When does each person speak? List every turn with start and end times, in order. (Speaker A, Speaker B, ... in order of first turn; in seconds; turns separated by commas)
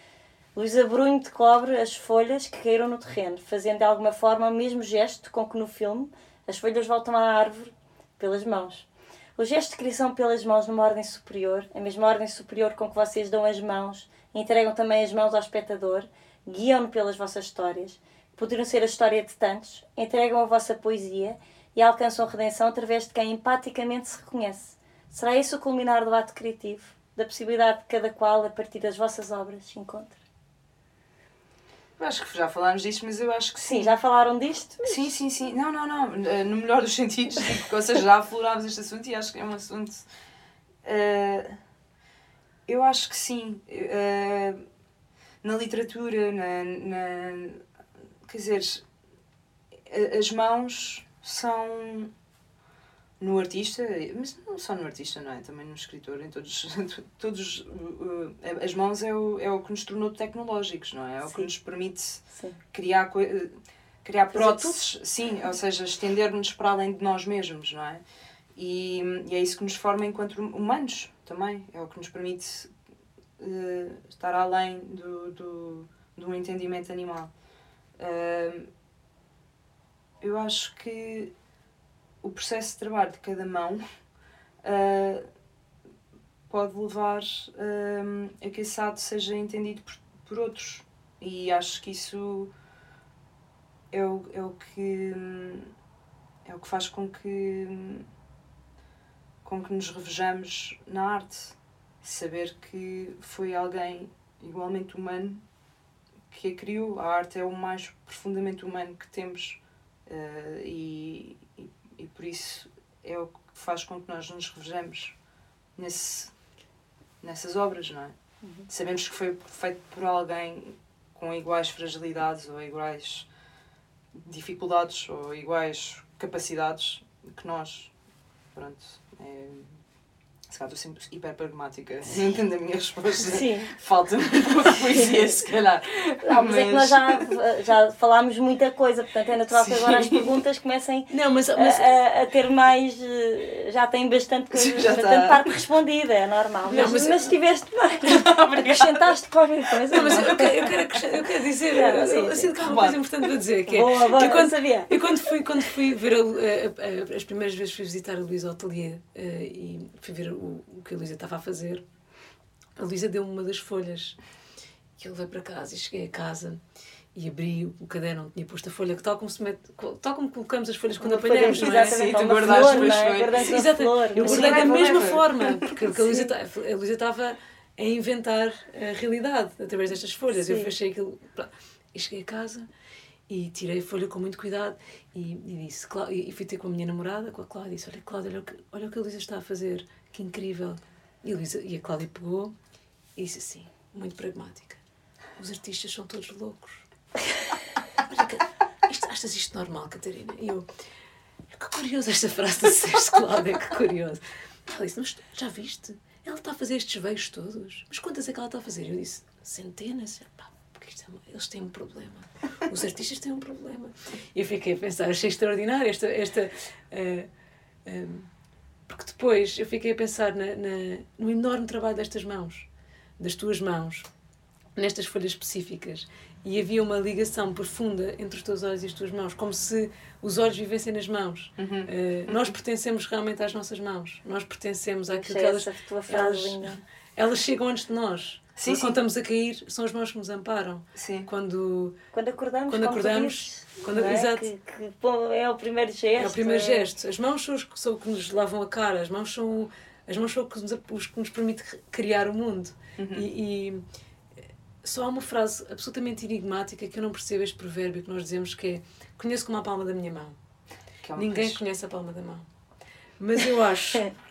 Speaker A: 0.5-30.2, Speaker B: 32.0-33.9, Speaker A: 33.6-35.1, Speaker B: 34.8-40.0, Speaker B: 40.8-41.6, Speaker B: 42.7-44.6, Speaker B: 45.4-47.6, Speaker B: 48.2-48.8, Speaker B: 49.9-52.1, Speaker B: 53.2-68.0, Speaker A: 64.3-64.8, Speaker B: 68.5-72.7, Speaker B: 73.4-77.3, Speaker B: 78.0-78.7, Speaker B: 80.2-81.3, Speaker B: 82.2-83.8, Speaker B: 84.6-85.2, Speaker B: 86.5-92.5, Speaker B: 93.9-95.7, Speaker B: 96.4-98.1, Speaker B: 99.4-105.4, Speaker B: 106.3-115.2, Speaker B: 115.8-116.3, Speaker B: 117.2-118.1, Speaker B: 118.7-123.3, Speaker B: 124.1-127.9, Speaker B: 128.5-129.8, Speaker B: 130.5-137.3, Speaker A: 133.3-133.7, Speaker A: 136.2-150.8, Speaker B: 139.5-140.3, Speaker C: 141.1-141.9, Speaker B: 144.5-145.5, Speaker C: 146.7-147.3, Speaker B: 148.0-149.1, Speaker C: 149.9-161.8, Speaker B: 150.0-150.7, Speaker A: 151.7-152.5, Speaker B: 152.6-153.0, Speaker A: 153.7-154.9, Speaker C: 162.8-164.2, Speaker C: 165.0-166.6, Speaker C: 167.1-182.7, Speaker A: 171.0-174.8, Speaker B: 171.3-173.6, Speaker B: 174.2-175.7, Speaker A: 175.9-176.3, Speaker A: 180.3-180.7, Speaker C: 183.3-192.5, Speaker C: 193.2-194.8, Speaker C: 195.4-196.8, Speaker C: 198.0-200.7, Speaker C: 201.5-217.3, Speaker C: 217.8-218.3, Speaker C: 218.9-222.7, Speaker C: 223.2-224.1, Speaker C: 224.8-241.9, Speaker B: 231.6-232.5, Speaker A: 235.1-236.8, Speaker B: 238.6-239.0, Speaker B: 240.9-241.3, Speaker A: 242.1-246.9, Speaker C: 242.7-244.4, Speaker C: 246.2-253.8, Speaker B: 253.0-253.3, Speaker C: 254.8-260.4, Speaker B: 261.0-261.6, Speaker C: 261.1-262.5, Speaker C: 263.2-264.1